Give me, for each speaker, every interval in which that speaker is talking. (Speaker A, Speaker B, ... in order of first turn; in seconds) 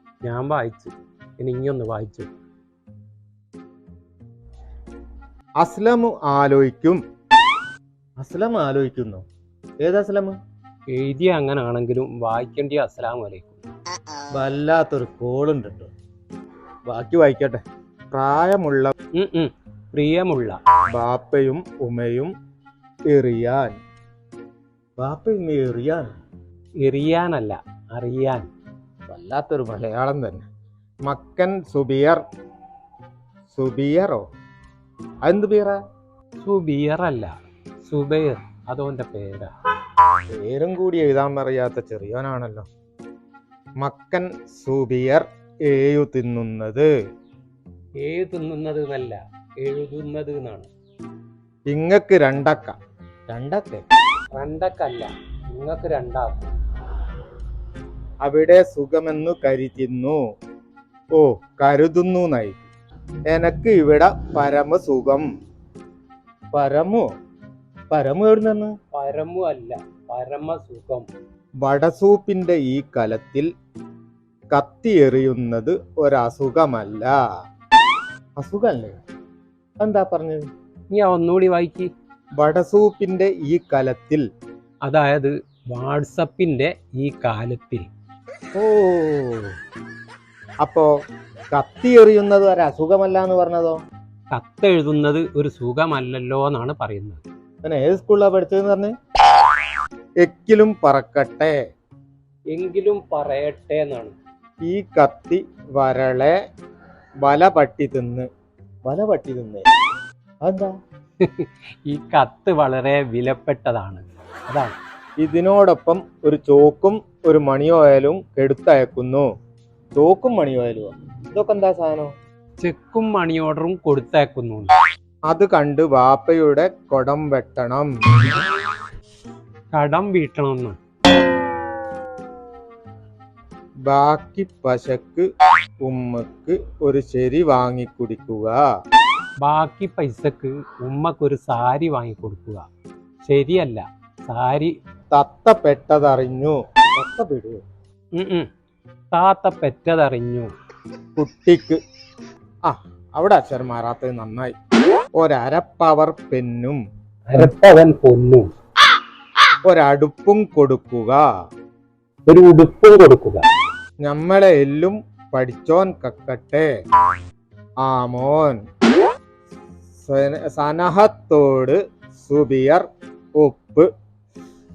Speaker A: 0.2-2.3, 10.9-13.7, 19.1-20.6, 26.8-28.5, 36.4-39.5, 48.0-50.7, 54.3-56.5, 68.9-71.1, 80.9-81.9, 84.8-87.9, 94.3-97.2, 102.5-104.1, 111.2-114.8, 122.6-124.7, 129.7-130.8, 139.4-142.7, 143.2-144.8, 148.2-148.5, 149.1-150.5, 157.3-158.5, 162.3-163.5
Speaker B: 5.6-7.0, 8.2-9.2, 9.8-10.3, 14.3-15.9, 16.9-17.6, 18.1-18.9, 20.9-22.3, 23.1-23.7, 25.0-26.1, 29.1-30.4, 31.1-32.2, 33.5-34.2, 35.2-35.8, 40.3-42.7, 43.8-46.9, 51.7-52.8, 53.3-53.8, 58.2-60.2, 61.1-62.6, 63.3-65.3, 66.5-67.0, 67.9-68.7, 71.6-73.5, 74.5-77.2, 78.4-79.0, 79.8-80.4, 82.4-84.2, 88.5-89.5, 90.6-90.9, 91.5-93.8, 97.6-98.9, 100.2-101.6, 104.6-106.4, 107.2-108.3, 108.8-109.7, 110.4-110.7, 115.2-119.3, 120.0-122.1, 125.3-128.2, 133.9-135.2, 135.8-138.6, 145.1-147.6, 151.2-151.8, 152.7-154.5, 155.2-156.8, 159.7-161.2, 164.0-166.7, 167.8-168.6, 170.0-172.8, 173.4-173.9